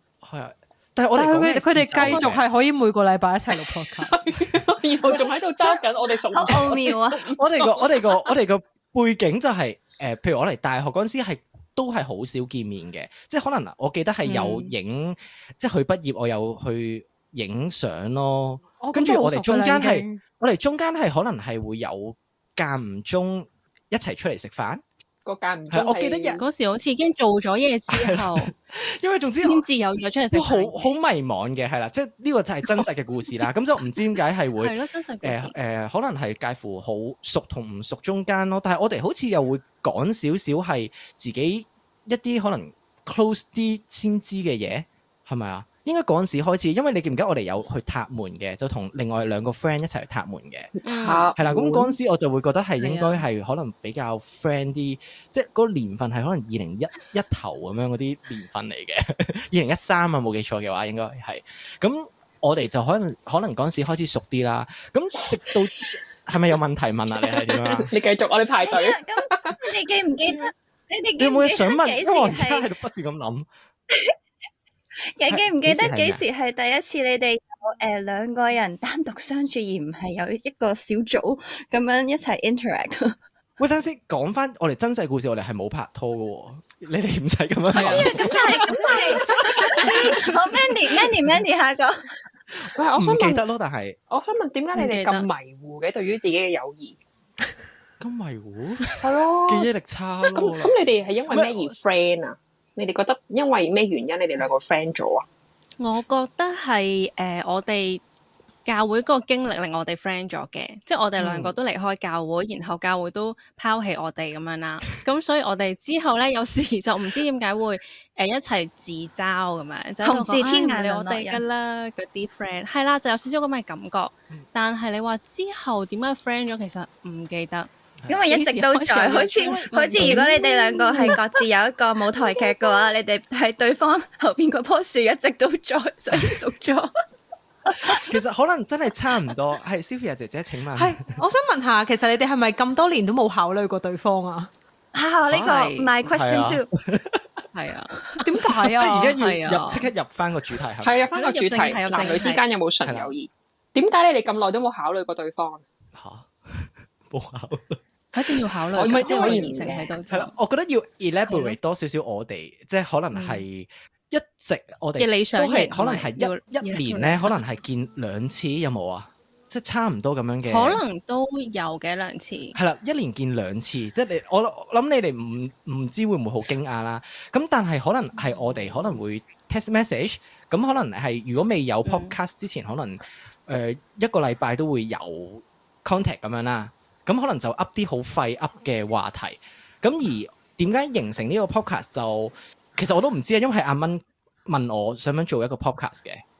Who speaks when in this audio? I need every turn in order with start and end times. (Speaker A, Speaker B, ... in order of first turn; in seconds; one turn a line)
Speaker A: 0.2-2.4
Speaker B: 1.1-4.2
Speaker C: 2.0-2.3
Speaker D: 4.0-8.2
Speaker E: 5.1-5.8
Speaker E: 6.3-7.2
Speaker A: 7.4-24.8
Speaker C: 14.2-14.7
Speaker B: 18.8-20.2
Speaker D: 25.2-26.4
Speaker A: 25.7-26.4
Speaker C: 26.4-28.5
Speaker A: 27.9-29.6
Speaker C: 29.4-30.9
Speaker A: 30.3-50.7
Speaker C: 34.6-35.5
Speaker D: 50.8-51.9
Speaker C: 50.8-51.3
Speaker A: 51.4-67.9
Speaker C: 52.8-53.2
Speaker D: 67.3-69.6
Speaker E: 68.6-72.7
Speaker A: 71.2-73.5
Speaker E: 75.0-83.2
Speaker A: 75.3-76.2
Speaker A: 83.6-90.7
Speaker C: 87.7-88.6
Speaker E: 87.8-92.0
Speaker D: 92.7-93.4
Speaker A: 93.0-94.0
Speaker D: 94.1-97.0
Speaker C: 94.7-95.3
Speaker A: 98.0-98.9
Speaker D: 99.0-99.7
Speaker A: 99.5-101.8
Speaker D: 100.3-105.2
Speaker C: 105.8-108.0
Speaker C: 108.6-127.7
Speaker A: 111.2-111.5
Speaker E: 120.0-121.4
Speaker E: 128.1-136.9
Speaker C: 128.3-131.2
Speaker E: 137.7-138.1
Speaker A: 137.8-141.2
Speaker B: 140.8-144.5
Speaker E: 144.9-146.7
Speaker A: 145.3-147.4
Speaker C: 145.3-145.9
Speaker C: 147.5-148.0
Speaker B: 148.2-149.2
Speaker A: 148.6-151.1
Speaker C: 149.2-149.9
Speaker D: 150.8-155.6
Speaker C: 151.1-152.4
Speaker A: 152.8-153.1
Speaker A: 155.9-159.5
Speaker C: 158.1-160.3
Speaker D: 158.7-159.9
Speaker A: 160.1-170.8
Speaker C: 161.3-161.6
Speaker C: 163.1-163.4
Speaker C: 165.0-167.4
Speaker C: 170.5-172.6
Speaker A: 172.5-196.2
Speaker C: 181.8-182.1